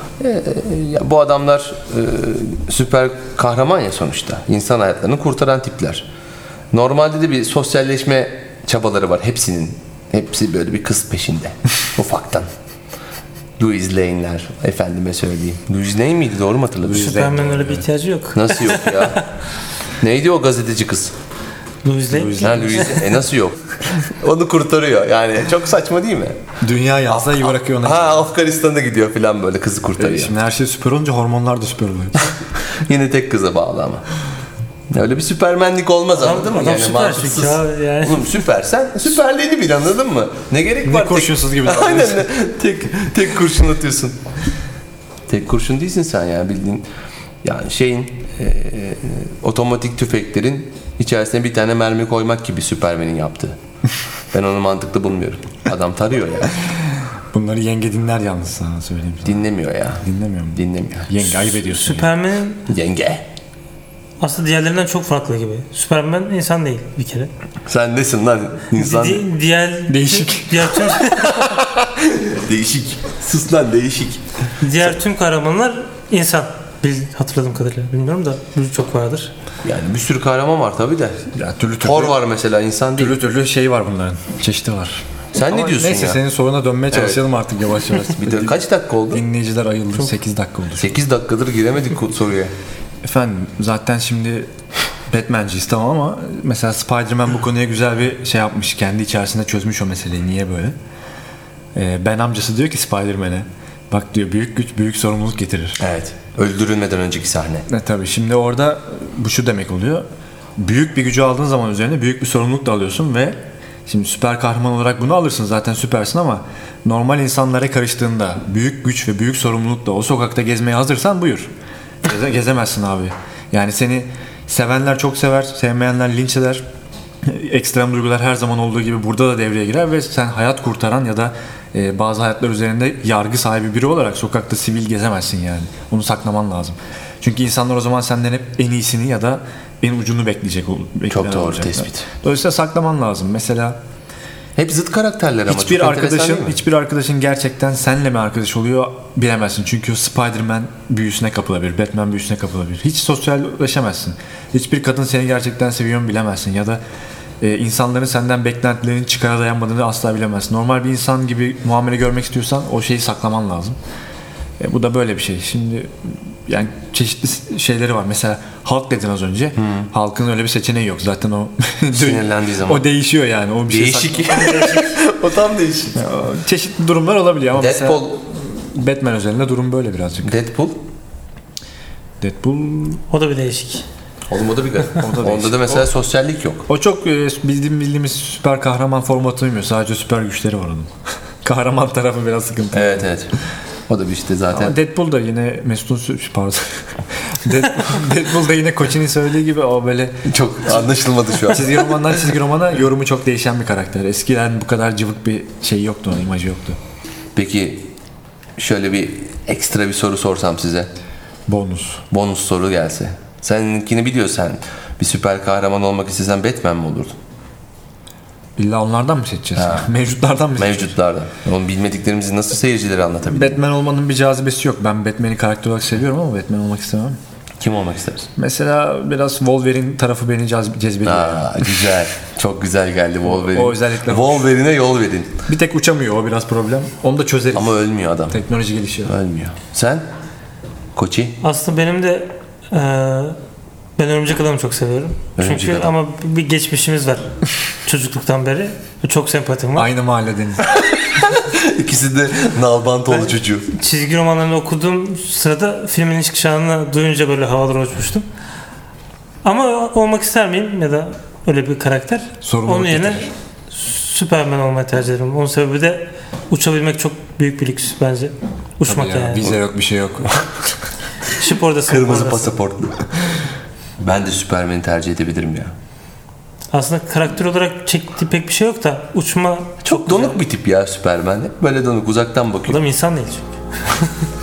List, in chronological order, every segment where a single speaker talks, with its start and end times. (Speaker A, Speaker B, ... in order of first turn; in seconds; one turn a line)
Speaker A: 0.2-6.1
Speaker A: 6.7-12.5
Speaker A: 13.6-17.1
Speaker B: 16.8-17.9
Speaker C: 17.0-19.2
Speaker A: 18.3-19.2
Speaker A: 20.0-21.1
Speaker C: 21.8-23.2
Speaker B: 22.1-22.6
Speaker A: 22.4-26.4
Speaker B: 26.6-28.2
Speaker A: 27.1-30.3
Speaker B: 30.0-32.3
Speaker A: 32.8-34.0
Speaker A: 34.9-44.2
Speaker C: 36.2-38.4
Speaker B: 40.9-42.2
Speaker A: 45.3-46.9
Speaker A: 47.4-53.6
Speaker A: 54.3-56.6
Speaker B: 57.3-59.5
Speaker A: 59.2-60.0
Speaker B: 60.0-62.1
Speaker A: 60.5-61.6
Speaker C: 61.8-62.6
Speaker A: 62.7-63.3
Speaker C: 64.2-67.3
Speaker A: 67.7-69.2
Speaker C: 68.7-71.6
Speaker B: 69.9-71.7
Speaker A: 72.0-74.2
Speaker C: 74.6-79.3
Speaker A: 79.6-81.3
Speaker B: 81.3-82.2
Speaker A: 81.8-83.1
Speaker B: 83.0-90.9
Speaker A: 85.3-86.2
Speaker A: 86.9-87.2
Speaker A: 88.2-89.2
Speaker A: 90.8-92.5
Speaker B: 93.0-94.5
Speaker B: 95.1-100.8
Speaker B: 101.8-105.8
Speaker A: 105.8-107.7
Speaker B: 107.7-110.0
Speaker B: 110.6-121.5
Speaker B: 122.0-126.6
Speaker B: 127.2-143.8
Speaker A: 141.1-142.1
Speaker A: 144.6-146.6
Speaker B: 145.5-156.8
Speaker B: 157.4-163.8
Speaker B: 164.6-174.8
Speaker A: 169.6-169.9
Speaker A: 171.9-172.8
Speaker A: 173.7-176.0
Speaker B: 175.9-180.3
Speaker A: 177.6-178.2
Speaker A: 180.2-180.9
Speaker B: 182.2-183.0
Speaker C: 183.1-183.8
Speaker A: 184.3-186.7
Speaker B: 185.0-185.9
Speaker B: 186.7-190.9
Speaker B: 191.4-193.1
Speaker A: 192.7-193.3
Speaker A: 193.9-194.8
Speaker B: 194.5-200.2
Speaker A: 200.3-202.2
Speaker B: 201.5-206.8
Speaker A: 207.3-207.9
Speaker A: 208.6-210.9
Speaker B: 211.5-212.0
Speaker A: 212.1-217.2
Speaker B: 218.6-220.9
Speaker A: 219.6-219.9
Speaker A: 220.6-223.6
Speaker B: 223.3-227.2
Speaker A: 227.6-228.3
Speaker B: 228.4-231.8
Speaker A: 231.1-235.4
Speaker B: 233.2-234.5
Speaker B: 235.5-239.1
Speaker A: 237.5-238.4
Speaker A: 239.1-240.1
Speaker A: 241.0-241.4
Speaker C: 241.4-243.4
Speaker C: 244.0-247.3
Speaker A: 245.4-245.9
Speaker C: 247.8-249.9
Speaker B: 249.8-250.6
Speaker A: 250.7-253.7
Speaker C: 253.7-258.2
Speaker C: 259.4-269.5
Speaker B: 262.4-263.3
Speaker B: 268.9-270.7
Speaker C: 271.3-272.6
Speaker A: 271.9-273.2
Speaker A: 274.0-275.7
Speaker C: 276.7-280.4
Speaker A: 279.8-282.8
Speaker C: 282.7-284.1